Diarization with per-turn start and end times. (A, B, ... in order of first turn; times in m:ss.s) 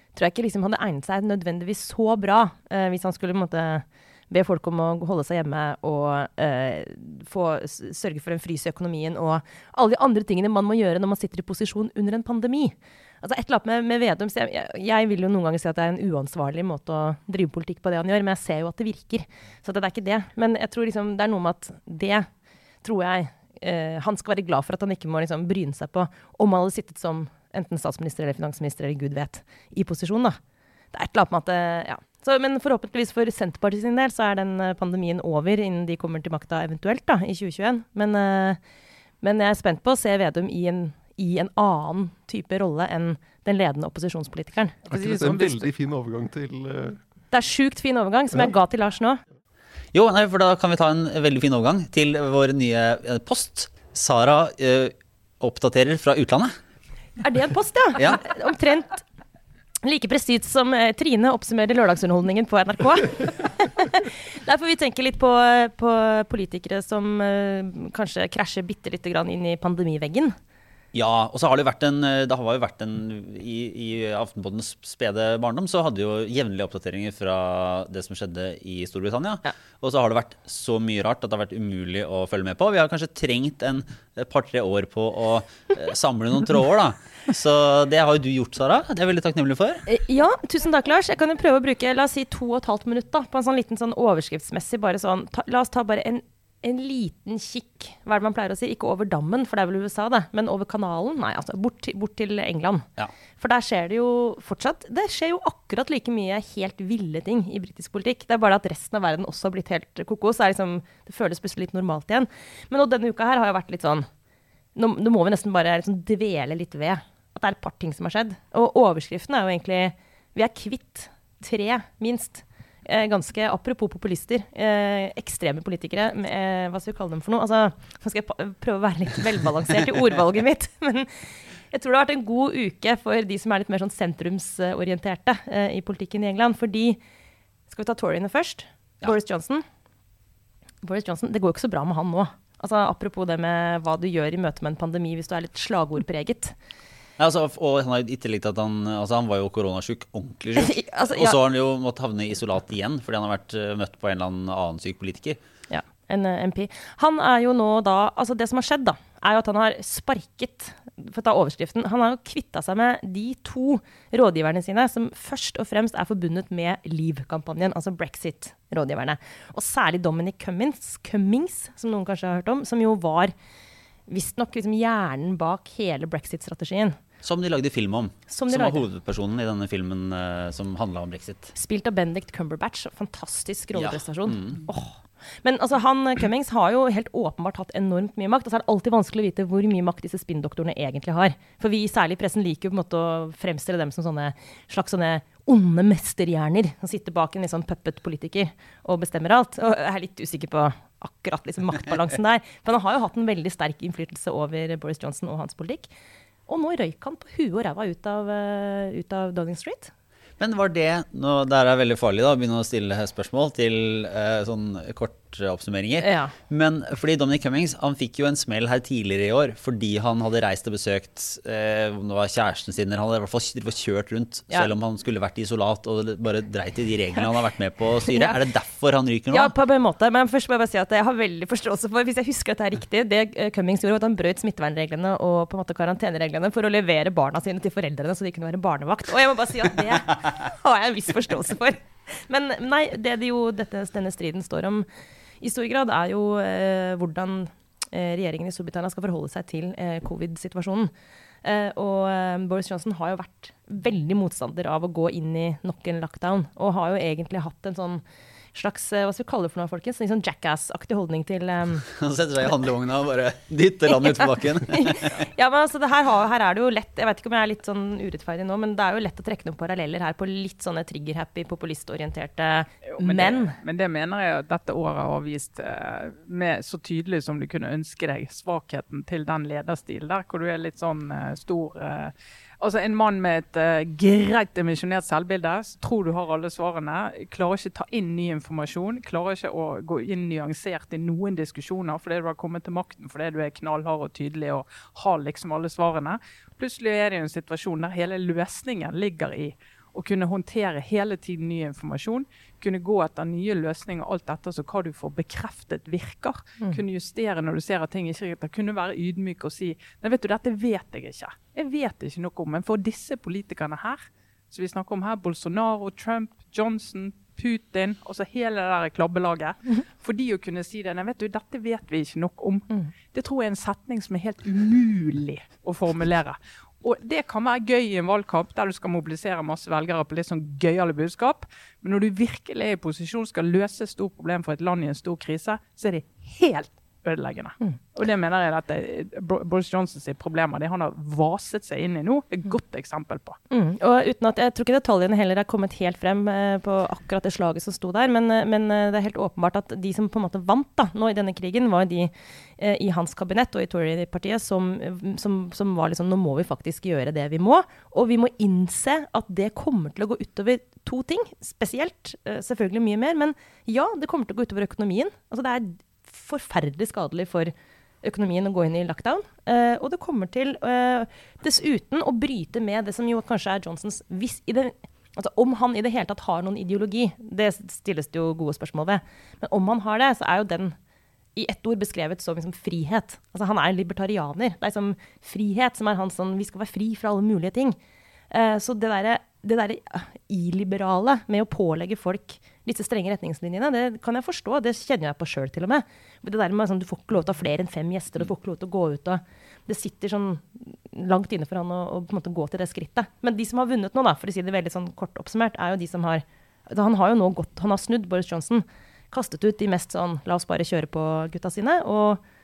0:00.2-0:22.3 A
0:22.8-0:30.4 A
0:30.9-0:38.6 A
0:39.2-0:44.8 A
0:44.9-0:45.7 B
0:44.9-0:47.0 C
0:47.3-0:49.2 A
0:49.9-0:56.6 D
0:57.2-0:59.0 A
0:59.8-1:10.4 A
1:10.9-1:29.8 D
1:29.9-1:42.9 A
1:43.4-1:54.1 A
1:54.8-2:17.0 A
2:17.7-2:19.6 A
2:20.8-2:26.6 A
2:27.2-2:35.4 D
2:30.6-2:31.4 A
2:35.7-2:53.3 A
2:54.1-2:57.0 A
2:57.2-3:01.5 D
2:58.3-2:58.8 A
3:01.5-3:25.9 A
3:03.8-3:04.6 D
3:26.5-3:29.9 A
3:30.4-3:49.5 D
3:36.0-3:36.3 A
3:48.1-3:48.4 A
3:49.3-4:04.9 A
4:05.4-4:10.9 A
4:11.4-4:18.0 A
4:18.5-4:21.8 A
4:21.9-4:25.2 D
4:24.7-4:33.6 A
4:32.9-5:14.0 B
5:14.5-5:43.4 B
5:43.5-6:20.8 A
6:21.4-6:27.8 A
6:28.3-6:52.2 A